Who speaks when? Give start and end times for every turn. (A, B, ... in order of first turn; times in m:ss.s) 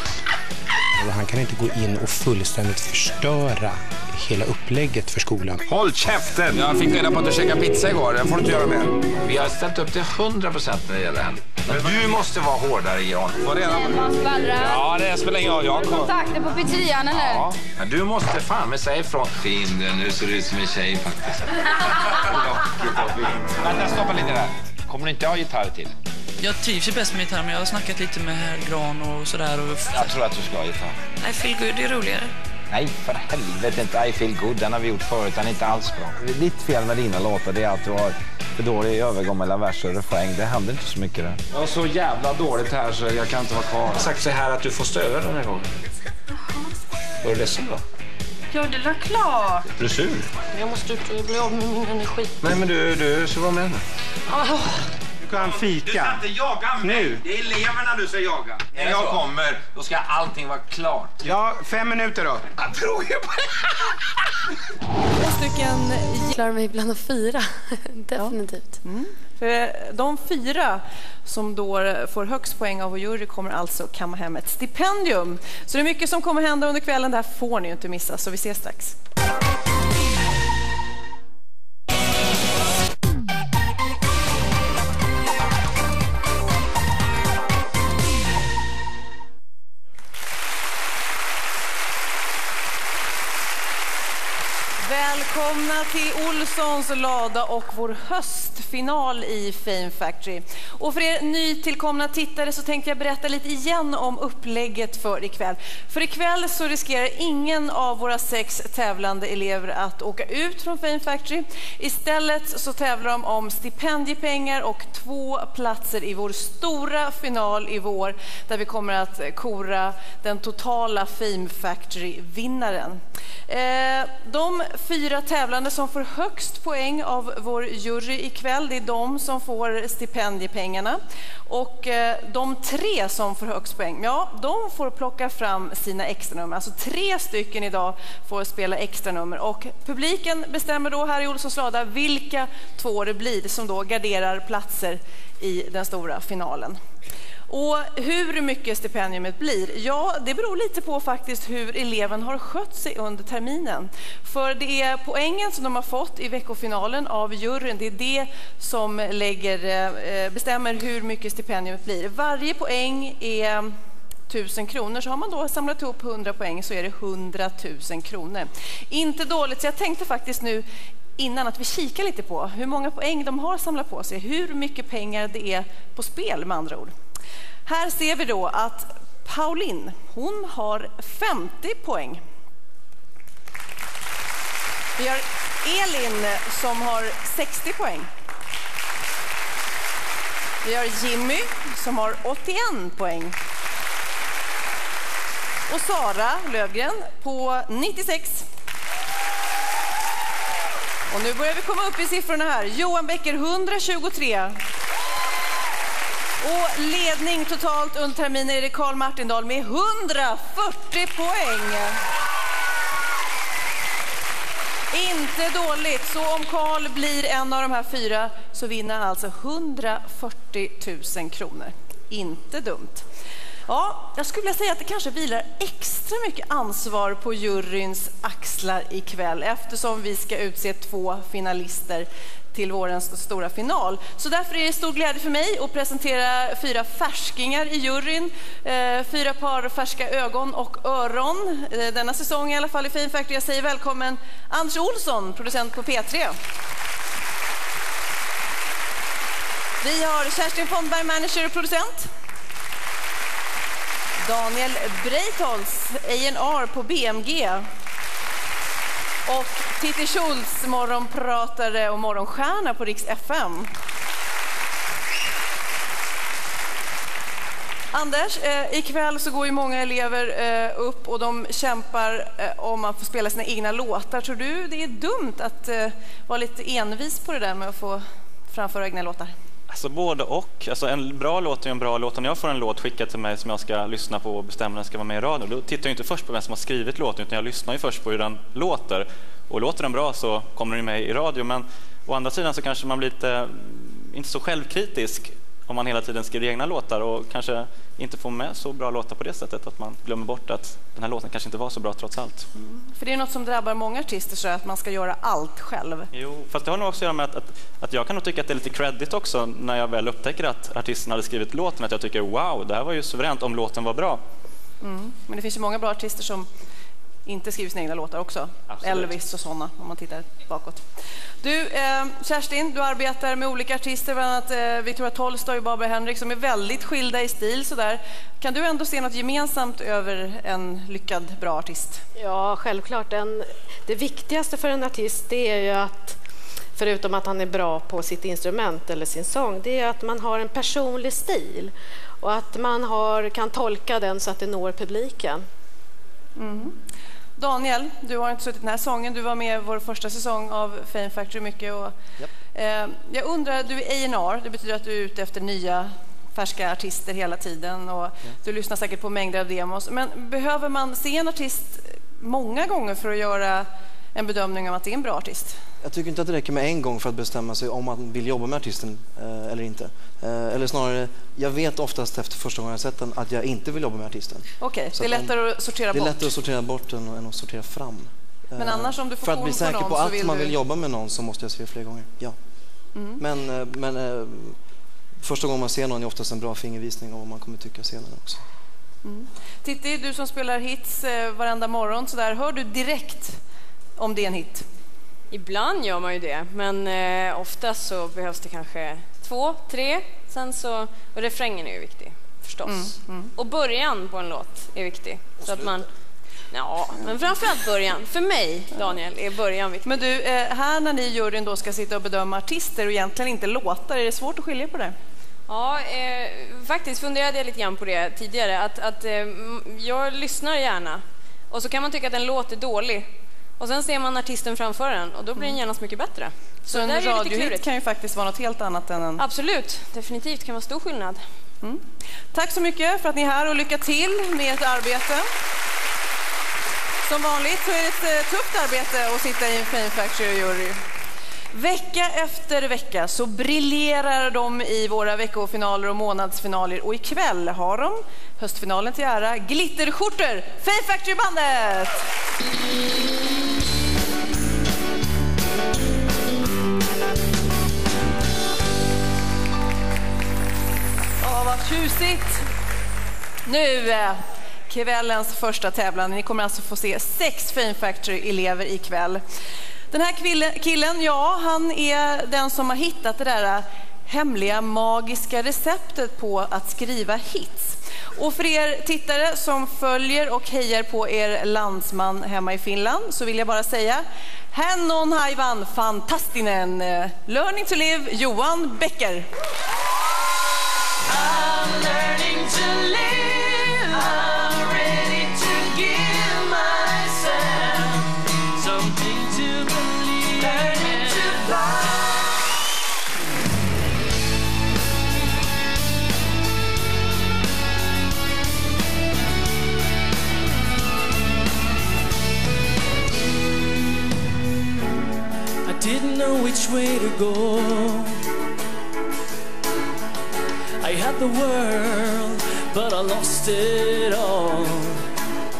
0:01.0-0:05.6 A
0:05.7-0:16.1 B
0:13.6-0:14.8 C
0:15.6-0:17.5 C
0:17.1-0:25.9 B
0:26.4-0:30.1 D
0:29.9-0:31.0 B
0:31.2-0:32.3 D
0:32.7-0:45.7 B
0:47.2-0:47.8 B
0:48.5-0:49.6 C
0:49.8-0:50.3 B
0:50.6-0:51.0 C
0:52.4-0:53.2 B
0:55.2-0:56.2 A
0:55.3-1:01.3 B
0:56.8-0:57.2 A
1:01.2-1:02.5 A
1:02.6-1:03.5 B
1:05.1-1:06.3 E
1:06.3-1:08.8 F
1:08.8-1:19.0 E
1:34.8-2:26.8 E
2:27.5-2:43.7 E
2:44.3-2:50.6 E
2:51.2-2:56.9 E
2:57.7-3:02.2 E
3:05.0-3:08.1 E
3:10.6-3:13.4 E
3:15.7-3:18.4 E
3:21.1-3:24.6 E
3:26.4-3:32.0 E
3:34.9-3:43.0 E
3:43.7-4:06.4 E
4:09.8-4:12.1 E
4:14.2-4:17.6 E
4:19.2-4:23.7 E
4:27.9-4:39.3 E
4:39.7-5:02.5 G
5:02.6-5:06.1 E
5:06.1-5:14.2 G
5:14.8-5:16.5 E
5:17.2-5:20.8 E
5:21.4-5:32.0 E
5:32.1-5:36.2 H
5:36.8-5:45.4 H
5:46.4-5:46.8 E
5:47.4-5:52.0 E
5:52.5-6:05.6 E
6:05.8-6:15.4 I
6:14.6-6:16.3 E
6:15.9-6:22.4 I
6:18.6-6:20.5 E
6:23.2-6:24.6 I
6:25.2-6:28.4 I
6:29.0-6:33.4 E
6:34.0-6:34.6 E
6:35.3-6:45.9 J
6:42.7-6:43.3 E
6:46.5-6:49.9 J
6:47.2-6:47.5 E
6:49.8-6:54.9 E
6:55.5-7:07.7 J
7:06.7-7:09.2 E
7:09.2-7:11.2 J
7:11.6-7:15.2 E
7:17.0-7:20.8 E
7:21.5-7:32.0 E
7:41.2-7:42.4 E
7:43.4-7:49.2 E
7:49.9-8:09.3 E
8:11.0-8:21.6 K
8:35.6-8:38.2 K
8:40.8-8:45.0 K